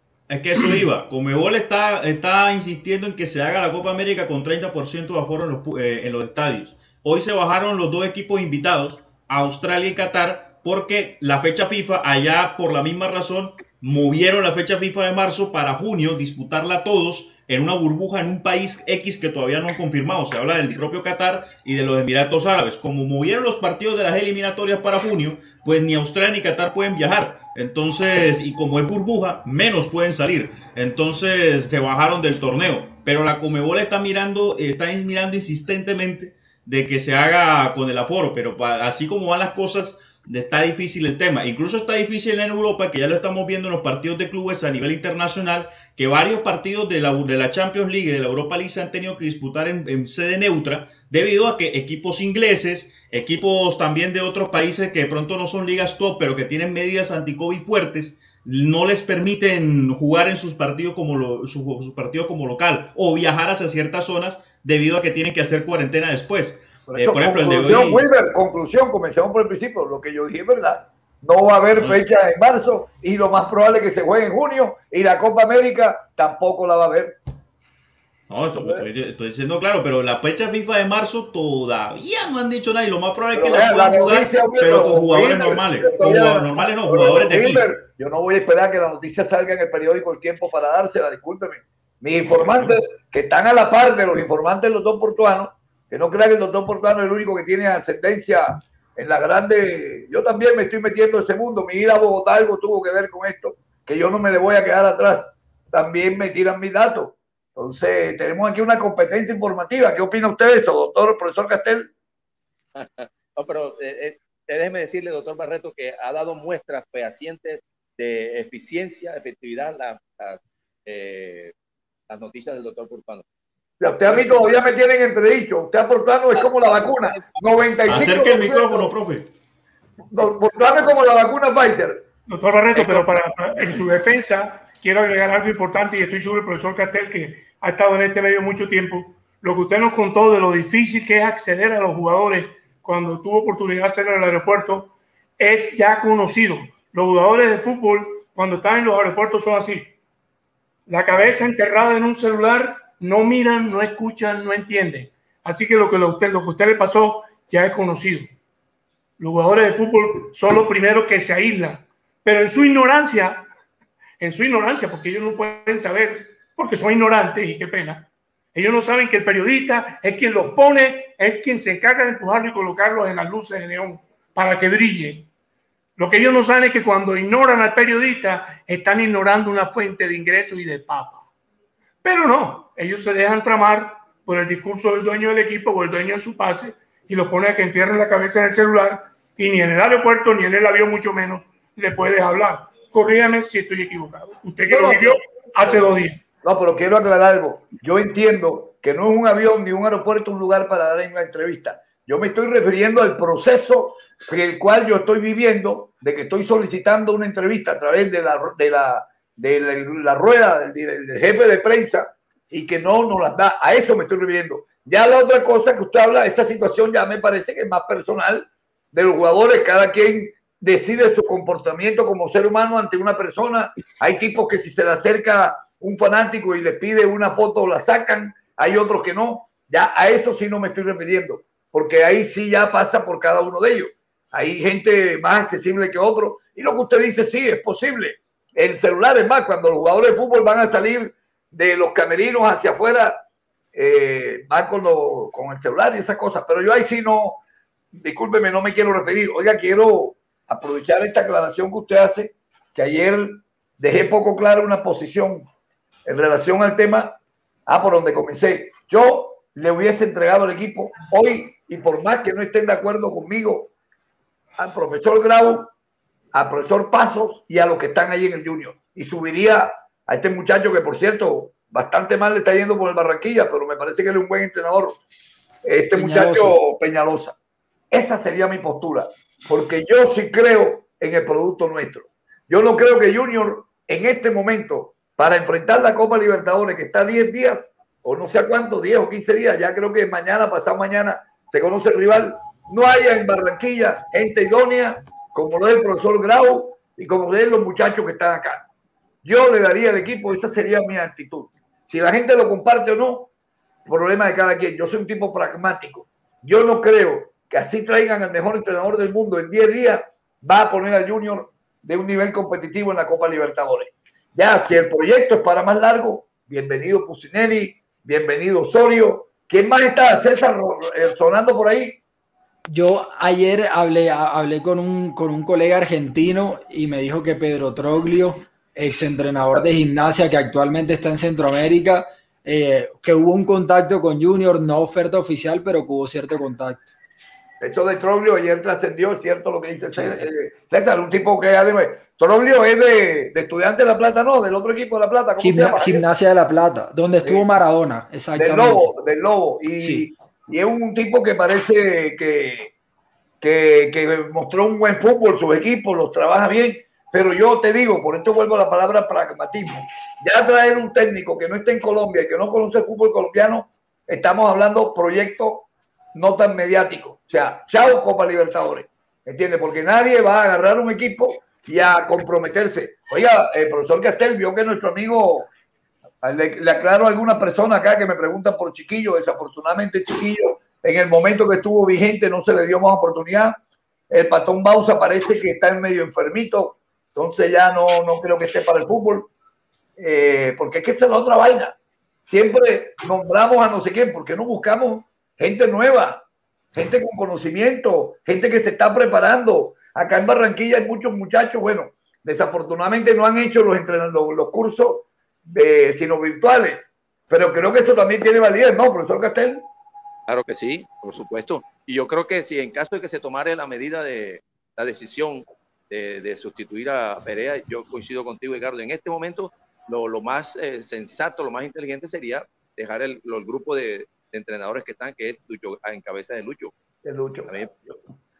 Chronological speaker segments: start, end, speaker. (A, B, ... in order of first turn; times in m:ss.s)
0:00.3-1:08.1 A
1:06.9-1:17.2 B
1:18.3-1:27.7 A
1:18.6-1:18.8 B
1:23.3-1:51.9 B
1:52.8-2:01.5 C
2:02.1-2:03.2 C
2:03.8-2:08.9 B
2:03.8-2:04.6 C
2:06.4-2:07.2 C
2:07.9-2:09.3 A
2:10.1-2:12.0 B
2:12.3-2:29.9 D
2:12.8-2:13.1 C
2:30.9-2:38.3 D
2:39.2-2:43.5 D
2:44.2-2:55.3 D
2:56.0-3:01.3 D
3:02.0-3:16.2 D
3:14.7-3:15.8 B
3:16.4-4:03.2 B
4:03.7-4:07.4 B
4:07.9-4:15.5 B
4:16.1-4:23.7 B
4:24.6-4:25.7 B
4:26.3-4:35.0 B
4:35.6-4:37.4 B
4:35.9-4:36.6 E
4:37.9-4:58.7 B
4:59.2-5:03.3 B
5:03.9-5:22.0 B
5:22.7-5:36.9 E
5:37.6-5:46.1 B
5:40.0-5:40.2 E
5:45.4-5:48.9 E
5:48.4-5:52.7 B
5:49.8-5:50.1 E
5:53.4-6:15.5 B
6:16.2-6:23.6 B
6:24.1-6:29.3 B
6:30.0-6:31.8 B
6:32.3-6:49.6 B
6:50.3-7:06.7 C
7:07.0-7:08.0 B